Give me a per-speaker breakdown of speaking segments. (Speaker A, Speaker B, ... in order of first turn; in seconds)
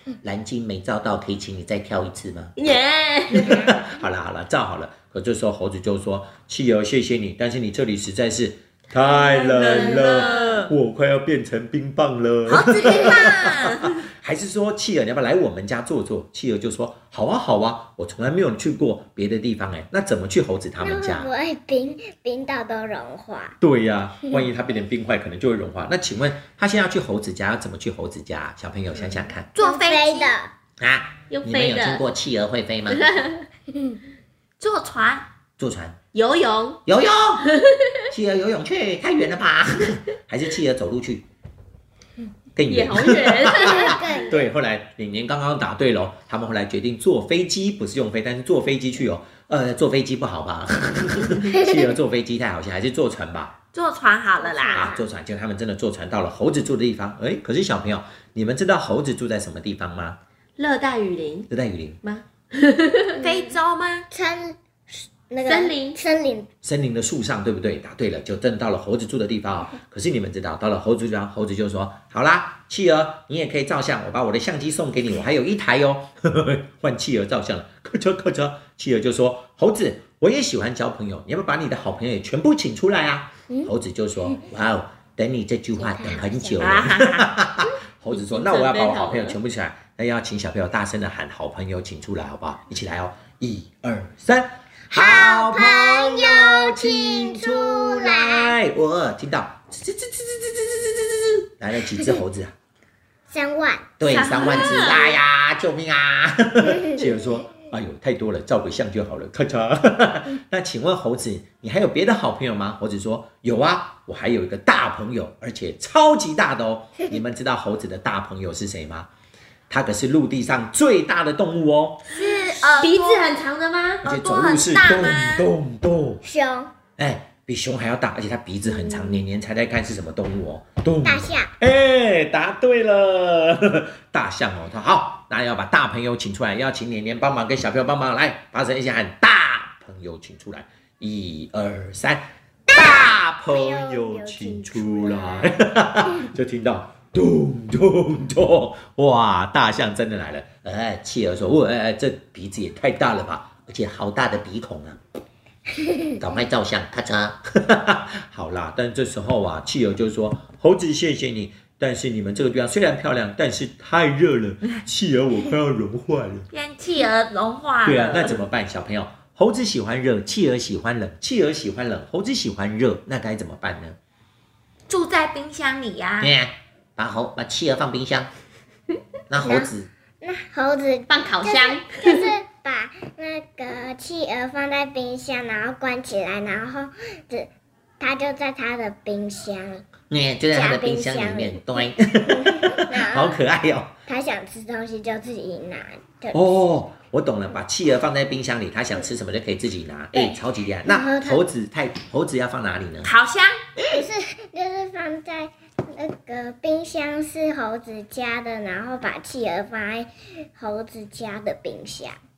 Speaker A: 0.2-2.5, 3.4-21.3, 23.6-29.5, 30.8-33.1, 35.6-36.0, 36.9-37.5, 38.1-41.2, 42.5-53.5, 54.7-60.2, 61.5-62.0, 66.6-102.5, 104.0-119.1, 119.7-122.0, 124.0-126.2, 127.0-155.0, 156.2-166.5, 167.8-174.0, 176.2-178.3, 179.3-179.9, 190.1-193.9, 196.3-203.1
Speaker B: 2.6-3.6, 9.5-10.6, 31.3-32.0, 32.9-33.4, 36.1-36.8, 37.4-37.7, 42.7-44.0, 60.6-61.5, 62.0-63.1, 65.4-66.0, 88.1-89.4, 122.6-124.0, 181.1-182.3
Speaker C: 9.2-10.7, 12.5-14.0, 29.5-30.3, 34.6-35.2, 53.7-54.9, 63.1-64.0, 86.6-87.3, 104.1-105.2, 122.1-123.2, 124.0-125.5, 166.5-168.3, 174.9-176.3, 203.0-204.0
Speaker D: 12.9-13.3, 20.8-23.6, 29.6-30.5, 33.7-34.0, 43.5-44.4, 51.5-51.9, 54.4-55.0, 63.1-63.6, 64.1-66.5, 85.8-86.8, 94.9-98.5, 103.3-103.9, 104.5-104.8, 126.2-126.7, 128.8-129.2, 131.0-131.5, 142.7-145.6, 179.4-189.8, 190.5-193.4, 194.1-196.5, 200.1-201.4, 203.9-212.2